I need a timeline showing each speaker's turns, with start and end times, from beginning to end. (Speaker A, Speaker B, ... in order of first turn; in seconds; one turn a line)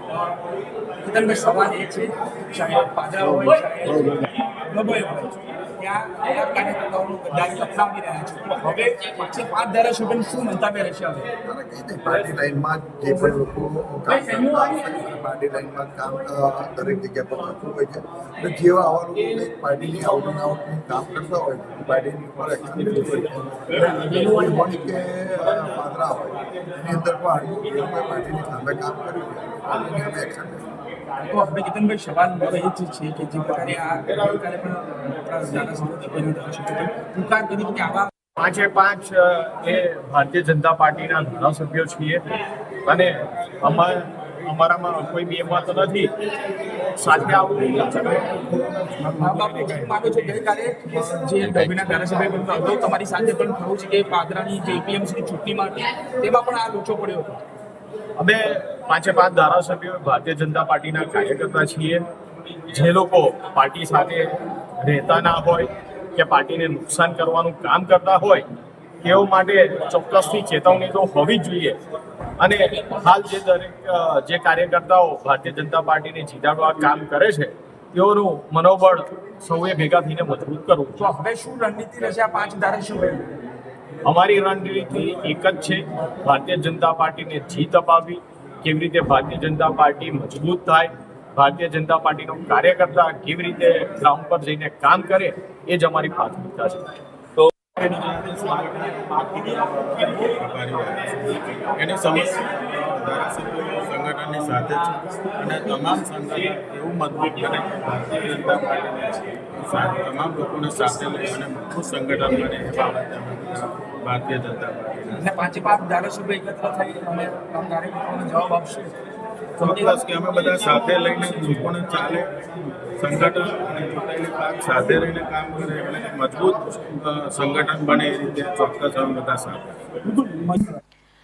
Speaker A: 1.0-11.3
Speaker B: 11.4-30.6
Speaker A: 31.2-38.1
Speaker C: 38.4-42.2
Speaker C: 42.9-46.1
Speaker C: 47.0-48.3
Speaker A: 49.2-57.4
Speaker C: 58.2-62.0
Speaker C: 62.7-64.3
Speaker C: 64.8-68.5
Speaker C: 69.0-71.8
Speaker C: 72.4-81.0
Speaker A: 81.0-83.2
Speaker C: 84.0-96.9
Speaker D: 97.8-115.2
Speaker A: 115.2-118.9
Speaker D: 119.6-122.3
Speaker A: 119.6-119.9
Speaker D: 123.0-129.8
Speaker A: 130.1-130.6